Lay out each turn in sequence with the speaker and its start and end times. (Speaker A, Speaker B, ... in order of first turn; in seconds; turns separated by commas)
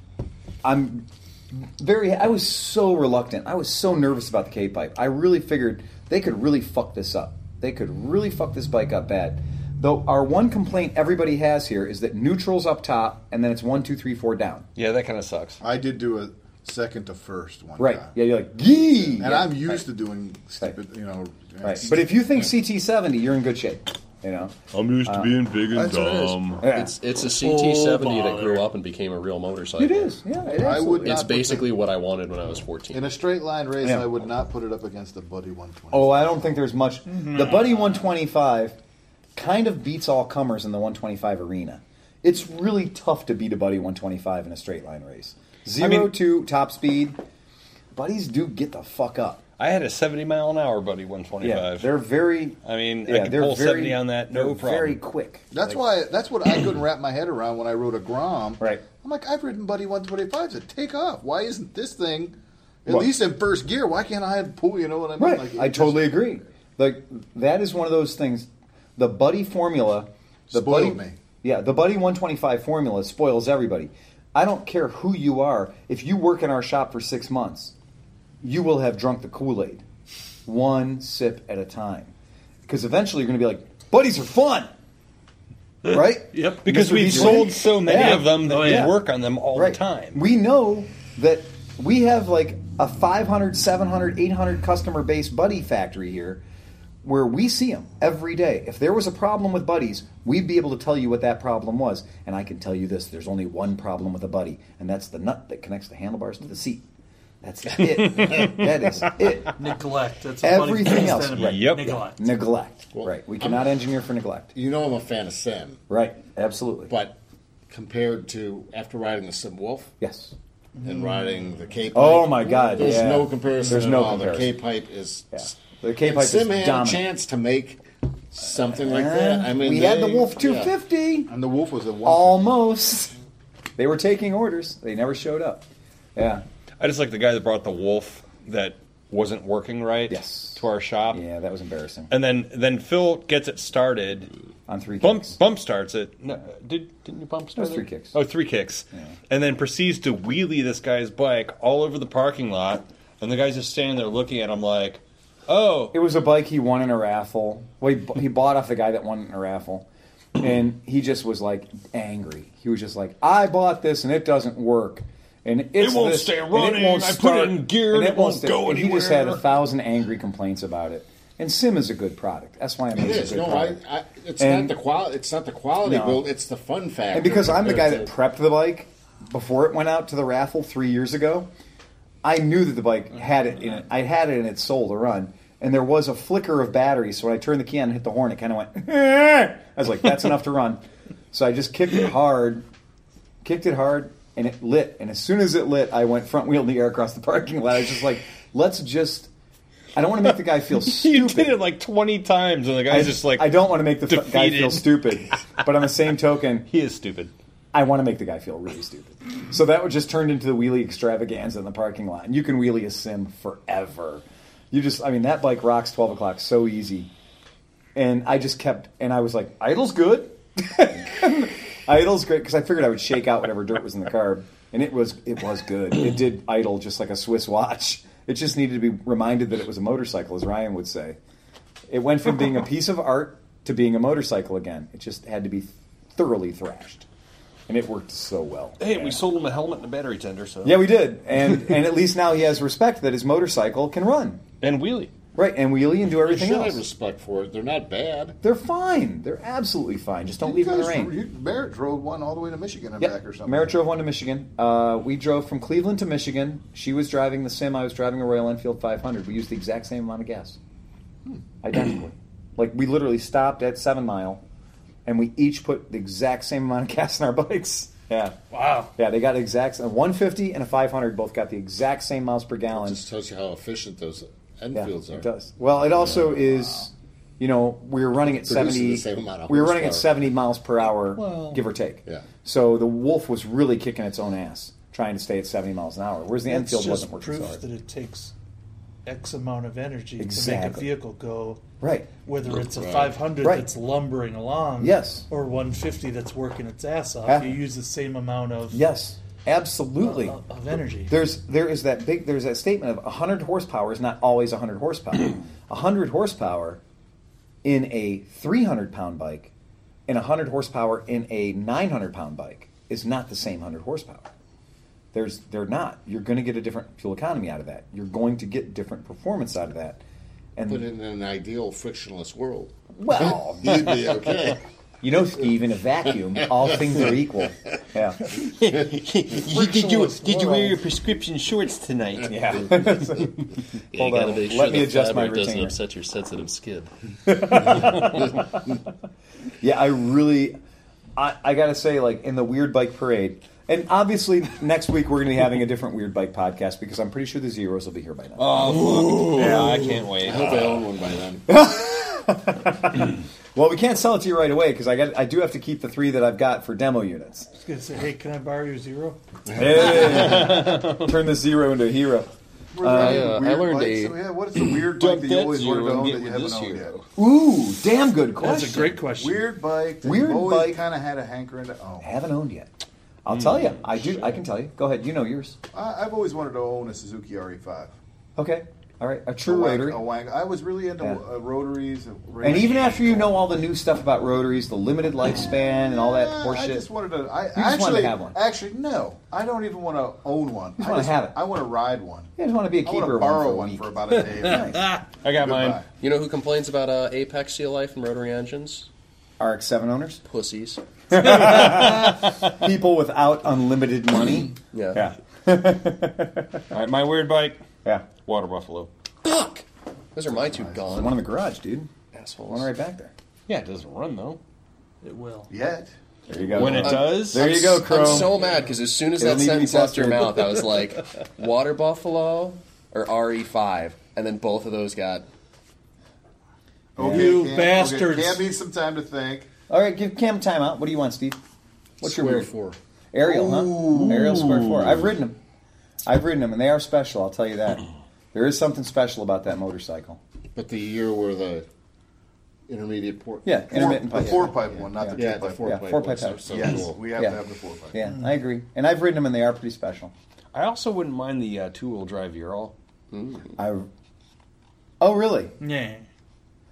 Speaker A: 0.6-14.7, Speaker B: 14.8-15.6, Speaker C: 15.6-18.1, Speaker A: 17.8-19.8, Speaker C: 19.2-22.2, Speaker A: 21.6-25.4, Speaker B: 24.7-26.6, Speaker C: 25.7-26.4, Speaker A: 26.6-26.9, Speaker D: 26.6-30.2, Speaker E: 27.4-28.6, Speaker A: 29.8-31.2, Speaker C: 30.5-31.8, Speaker D: 30.7-33.2, Speaker C: 32.9-36.5, Speaker A: 35.9-38.8, Speaker E: 37.0-38.0, Speaker A: 39.3-47.2, Speaker B: 45.8-46.1, Speaker A: 47.9-49.4, Speaker B: 49.6-51.9, Speaker A: 51.4-55.5, Speaker B: 52.6-55.0, Speaker C: 55.5-66.3, Speaker A: 58.6-58.8, Speaker A: 65.2-77.7, Speaker C: 70.5-71.2, Speaker A: 78.4-79.8, Speaker A: 80.5-82.1, Speaker A: 82.7-84.7, Speaker A: 85.8-89.0, Speaker E: 85.9-88.9, Speaker B: 86.6-90.2, Speaker A: 89.5-96.4, Speaker A: 97.0-106.8, Speaker A: 107.4-109.5, Speaker B: 107.9-108.5, Speaker E: 109.6-112.3, Speaker A: 110.4-114.5, Speaker B: 111.3-111.9, Speaker F: 112.9-113.7, Speaker F: 114.5-115.8, Speaker A: 115.9-116.9, Speaker F: 116.9-117.2, Speaker F: 117.7-119.9, Speaker A: 120.0-120.3, Speaker E: 120.8-121.3, Speaker F: 120.8-130.7, Speaker A: 121.9-124.5, Speaker A: 125.3-127.0, Speaker A: 128.7-131.3, Speaker C: 131.3-132.5, Speaker A: 132.0-133.1, Speaker A: 133.8-136.4, Speaker B: 136.8-141.2, Speaker A: 140.1-142.1, Speaker B: 142.1-144.3, Speaker A: 144.7-145.4, Speaker B: 145.0-155.9, Speaker A: 147.6-148.2, Speaker A: 155.9-173.8, Speaker B: 165.8-169.5, Speaker F: 172.9-178.1, Speaker A: 174.4-174.8, Speaker A: 175.8-176.2, Speaker A: 177.1-181.5, Speaker A: 182.2-190.8, Speaker A: 191.3-192.6, Speaker A: 193.4-199.3, Speaker A: 199.9-201.6, Speaker B: 200.8-205.3, Speaker A: 202.9-206.7, Speaker B: 206.7-207.3, Speaker A: 207.7-217.1, Speaker A: 217.9-231.2, Speaker A: 231.9-237.1, Speaker A: 237.7-239.2, Speaker B: 238.8-240.8, Speaker A: 240.6-244.4, Speaker B: 244.6-245.1, Speaker A: 245.3-246.8, Speaker F: 246.1-248.4, Speaker A: 248.4-251.2, Speaker C: 250.4-253.7, Speaker A: 253.0-260.6, Speaker A: 261.6-264.4, Speaker A: 265.0-268.3, Speaker E: 268.5-268.9, Speaker A: 268.9-273.0, Speaker F: 272.7-275.3, Speaker A: 274.7-287.6, Speaker F: 278.4-280.1, Speaker E: 281.1-281.6, Speaker E: 286.5-288.3, Speaker E: 289.0-291.6, Speaker A: 290.2-290.9, Speaker A: 291.8-292.1, Speaker E: 292.2-298.8, Speaker F: 292.5-293.2, Speaker A: 293.4-293.7, Speaker A: 294.8-295.2, Speaker A: 297.2-297.6, Speaker A: 298.7-300.4, Speaker E: 300.0-301.2, Speaker A: 301.1-306.8, Speaker A: 307.6-309.5, Speaker A: 310.1-314.3, Speaker A: 315.1-320.0, Speaker A: 320.6-320.8, Speaker F: 320.7-324.6, Speaker A: 322.9-324.2, Speaker A: 325.0-328.3, Speaker B: 328.4-332.8, Speaker E: 329.5-330.8, Speaker A: 332.3-335.7, Speaker D: 333.9-336.9, Speaker A: 337.2-338.6, Speaker A: 339.6-340.6, Speaker A: 341.2-350.0, Speaker B: 348.4-350.9, Speaker F: 349.2-351.5, Speaker A: 351.5-357.5, Speaker E: 357.6-359.2, Speaker F: 359.5-360.2, Speaker A: 359.5-362.3, Speaker B: 359.9-361.1, Speaker C: 362.7-367.0, Speaker A: 362.8-363.4, Speaker D: 362.8-364.2, Speaker B: 364.9-367.0, Speaker A: 367.2-369.0, Speaker E: 368.4-369.4, Speaker C: 369.0-372.1, Speaker A: 370.0-370.8, Speaker A: 372.0-372.7, Speaker A: 373.2-375.6, Speaker C: 375.7-377.9, Speaker A: 378.4-380.0, Speaker C: 379.4-383.4, Speaker A: 382.4-386.8, Speaker C: 385.8-392.3, Speaker A: 387.5-388.4, Speaker A: 390.8-391.4, Speaker A: 392.4-393.9, Speaker C: 392.8-395.8, Speaker A: 394.4-394.9, Speaker E: 394.7-395.0, Speaker B: 395.2-395.8, Speaker D: 396.0-398.9, Speaker A: 399.4-400.2, Speaker D: 400.2-400.8, Speaker A: 401.1-406.6, Speaker B: 401.8-402.1, Speaker D: 404.7-405.0, Speaker B: 406.7-407.6, Speaker B: 408.1-408.9, Speaker D: 409.2-411.2, Speaker C: 410.3-411.0, Speaker A: 410.9-411.9, Speaker D: 412.1-412.6, Speaker A: 412.4-413.1, Speaker B: 413.5-414.4, Speaker E: 415.0-415.5, Speaker C: 415.5-415.9, Speaker A: 416.3-418.3, Speaker B: 416.5-417.9, Speaker D: 417.4-425.2, Speaker E: 418.4-418.7, Speaker A: 419.2-420.5, Speaker C: 426.9-429.5, Speaker A: 427.0-427.4, Speaker E: 427.0-428.4, Speaker A: 429.7-431.4, Speaker A: 432.0-432.5, Speaker F: 432.0-432.8, Speaker A: 433.1-435.4, Speaker B: 433.7-435.0, Speaker A: 436.1-440.2, Speaker F: 440.5-441.6, Speaker F: 442.7-444.6, Speaker A: 443.4-447.4, Speaker C: 443.7-445.8, Speaker F: 445.1-447.0, Speaker C: 446.4-448.0, Speaker A: 447.9-450.1, Speaker B: 450.5-452.7, Speaker D: 453.1-453.5, Speaker A: 453.6-453.9, Speaker A: 455.0-455.5, Speaker E: 455.6-456.1